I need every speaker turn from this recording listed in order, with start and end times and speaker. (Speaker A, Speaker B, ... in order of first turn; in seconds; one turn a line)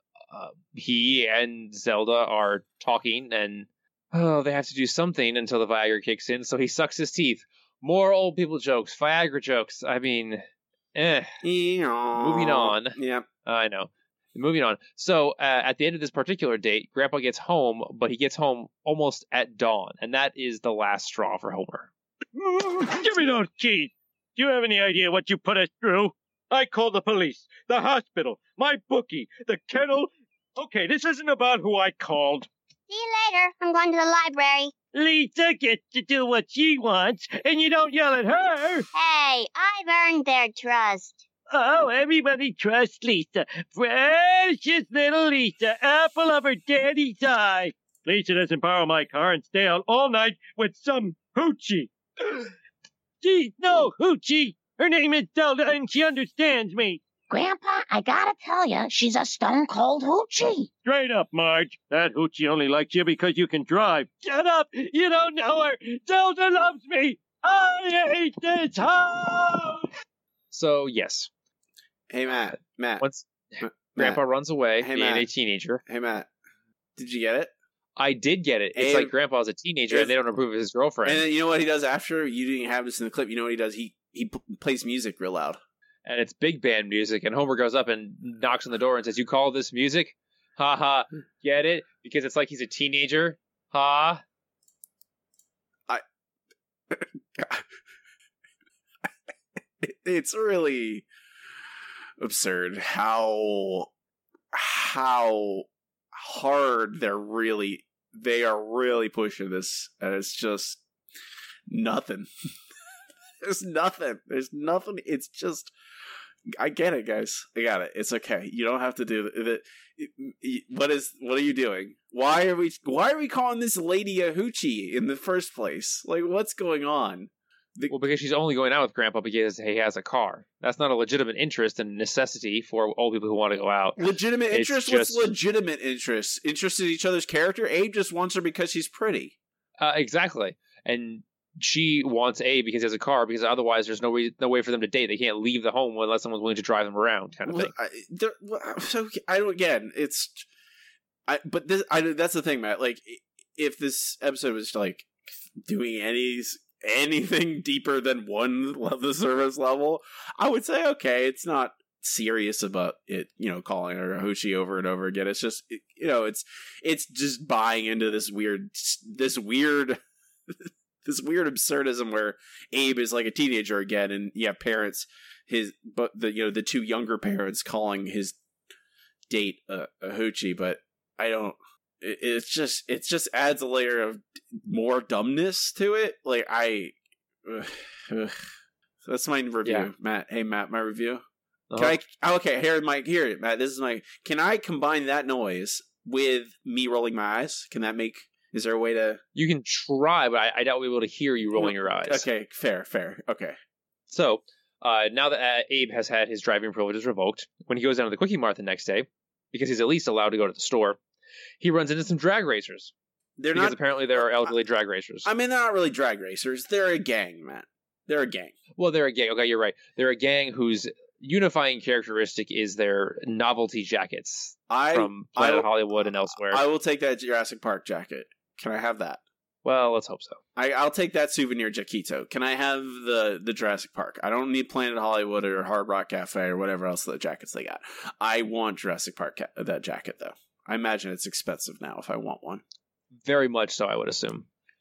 Speaker A: 0.3-10.4
Speaker A: 10.9-11.3
Speaker B: 11.4-13.3
Speaker A: 12.2-21.9
Speaker C: 22.4-32.5
Speaker D: 32.9-34.7
Speaker C: 34.9-38.9
Speaker D: 38.9-41.2
Speaker C: 41.5-52.5
Speaker C: 53.2-57.0
Speaker E: 57.3-60.7
Speaker C: 60.9-69.9
Speaker A: 70.5-71.3
Speaker B: 72.1-73.0
Speaker A: 73.0-75.8
Speaker B: 73.6-74.2
Speaker B: 74.8-75.3
Speaker B: 75.9-76.3
Speaker B: 77.0-77.5
Speaker A: 78.0-81.2
Speaker B: 78.8-79.1
Speaker B: 81.0-85.6
Speaker A: 86.0-94.2
Speaker B: 96.9-97.6
Speaker B: 99.8-101.1
Speaker B: 102.2-103.9
Speaker B: 104.5-110.8
Speaker B: 111.7-112.3
Speaker B: 113.4-115.7
Speaker B: 116.5-127.9
Speaker A: 127.9-135.3
Speaker B: 134.0-139.4
Speaker A: 139.8-147.7
Speaker B: 147.5-150.5
Speaker B: 151.3-170.0
Speaker B: 170.5-178.4
Speaker B: 179.3-188.4
Speaker B: 189.0-191.2
Speaker A: 191.7-192.0
Speaker B: 191.8-199.2
Speaker A: 199.3-202.3
Speaker B: 201.6-203.6
Speaker A: 204.1-211.0
Speaker A: 211.6-212.9
Speaker B: 213.4-214.5
Speaker A: 213.5-215.3
Speaker B: 215.2-218.6
Speaker A: 218.8-226.6
Speaker B: 224.7-229.2
Speaker A: 229.7-230.4
Speaker B: 230.6-242.6
Speaker A: 243.2-244.5